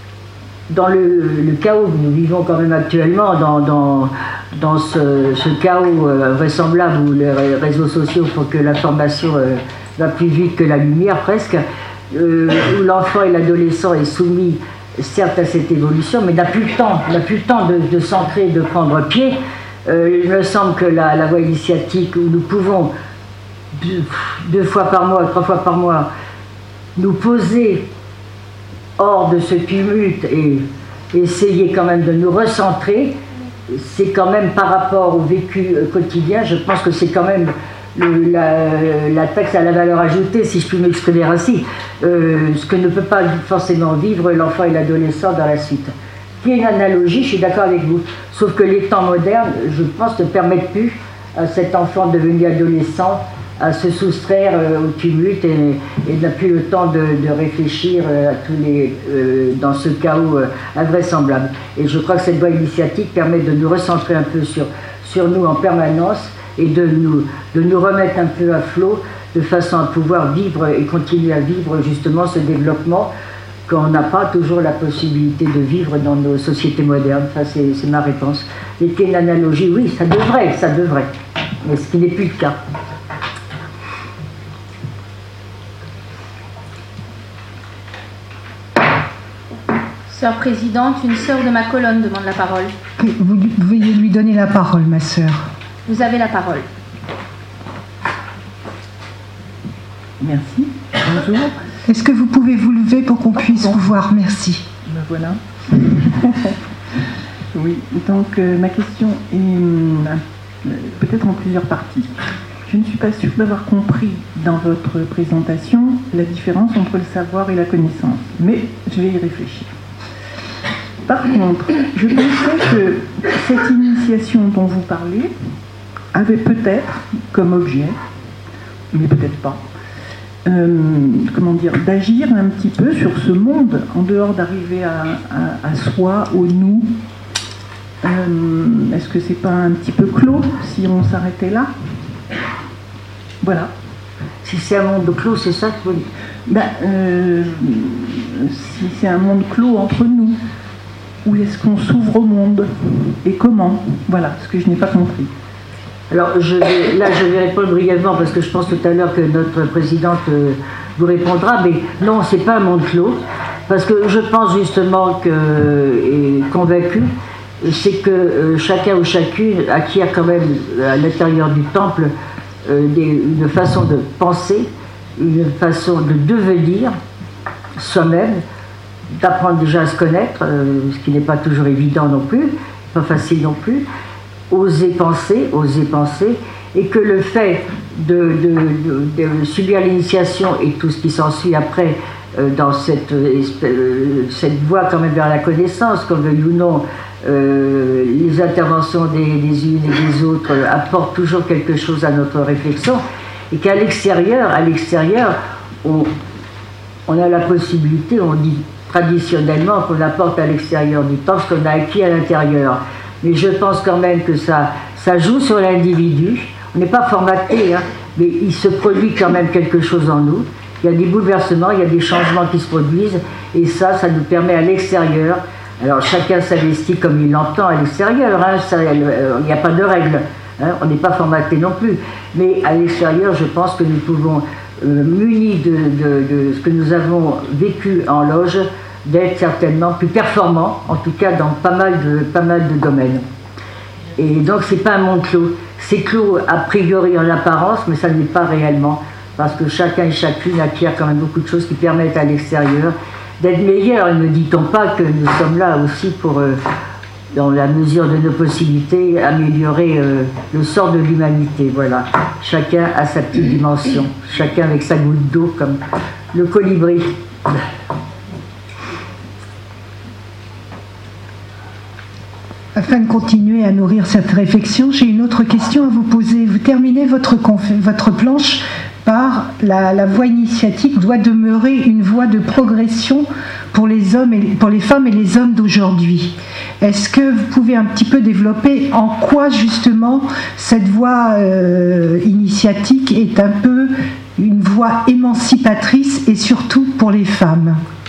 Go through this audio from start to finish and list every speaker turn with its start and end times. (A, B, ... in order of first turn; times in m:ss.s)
0:00.7-0:22.9 A
0:23.8-0:26.1 A
0:27.0-0:27.8 A
0:29.0-0:33.2 A
0:33.7-1:13.1 A
1:13.7-1:21.1 A
1:21.6-1:22.6 A
1:30.1-1:32.7 B
1:33.0-1:35.5 C
1:35.9-1:36.7 B
1:40.2-1:41.5 D
1:41.9-1:44.7 C
1:43.4-1:43.8 D
1:44.9-1:45.4 D
1:47.5-1:59.7 D
2:01.1-2:05.3 D
2:06.1-2:08.0 D
2:08.9-2:09.6 D
2:10.4-2:16.9 D
2:18.0-2:21.7 D
2:23.4-2:23.7 D
2:24.4-2:26.1 A
2:26.5-2:30.4 D
2:31.2-2:35.3 D
2:36.1-2:47.1 A
2:47.6-2:52.1 A
2:52.6-2:56.9 A
2:57.8-2:58.4 A
2:59.1-3:03.8 A
3:04.5-3:26.1 A
3:27.1-4:03.2 A
4:04.2-4:16.6 A
4:17.3-4:25.8 A
4:26.3-4:27.1 A
4:32.8-4:57.8 C